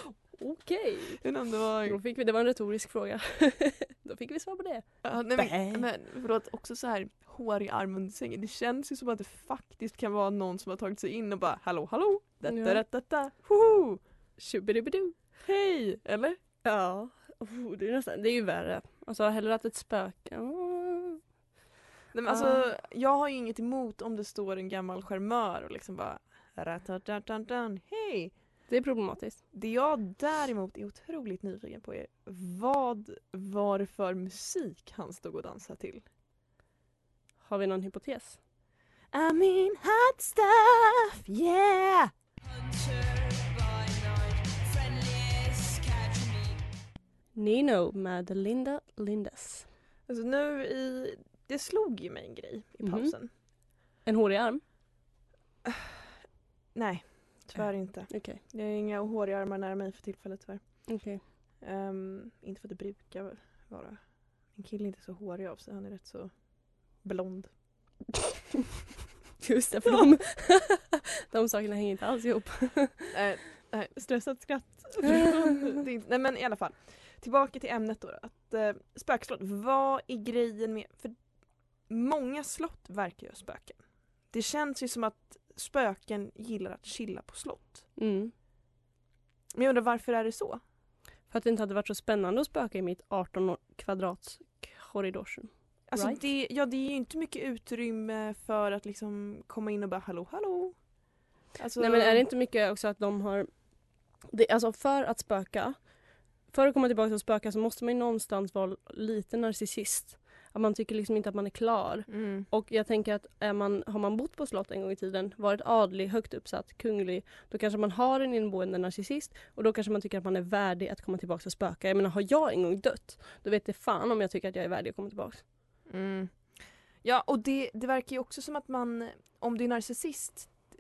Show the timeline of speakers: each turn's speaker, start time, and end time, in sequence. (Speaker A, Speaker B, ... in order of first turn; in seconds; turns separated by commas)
Speaker A: 0.4-1.2, Speaker B: 1.2-2.0, Speaker A: 1.9-5.8, Speaker B: 5.0-14.0, Speaker A: 12.4-12.8, Speaker A: 14.4-15.2, Speaker B: 15.4-16.4, Speaker A: 16.6-21.2, Speaker B: 22.1-28.3, Speaker A: 22.3-22.6, Speaker A: 28.7-29.4, Speaker B: 29.5-36.0, Speaker A: 37.4-38.4, Speaker B: 39.1-42.1, Speaker B: 42.7-46.3, Speaker A: 47.3-49.7, Speaker B: 50.1-53.3, Speaker A: 52.8-53.1, Speaker A: 54.0-54.6, Speaker B: 55.6-55.9, Speaker B: 56.7-60.9, Speaker A: 58.1-58.4, Speaker A: 60.9-61.2, Speaker B: 61.6-64.0, Speaker B: 64.5-66.3, Speaker B: 67.0-67.5, Speaker A: 69.4-73.1, Speaker B: 73.1-81.2, Speaker A: 75.0-75.4, Speaker B: 81.9-83.8, Speaker B: 84.3-87.9, Speaker A: 88.0-88.3, Speaker B: 89.5-90.6, Speaker A: 91.3-96.2, Speaker B: 95.9-100.8, Speaker B: 101.6-102.2, Speaker A: 101.8-103.5, Speaker A: 104.3-105.8, Speaker A: 106.5-125.4, Speaker B: 112.1-112.5, Speaker B: 125.9-130.7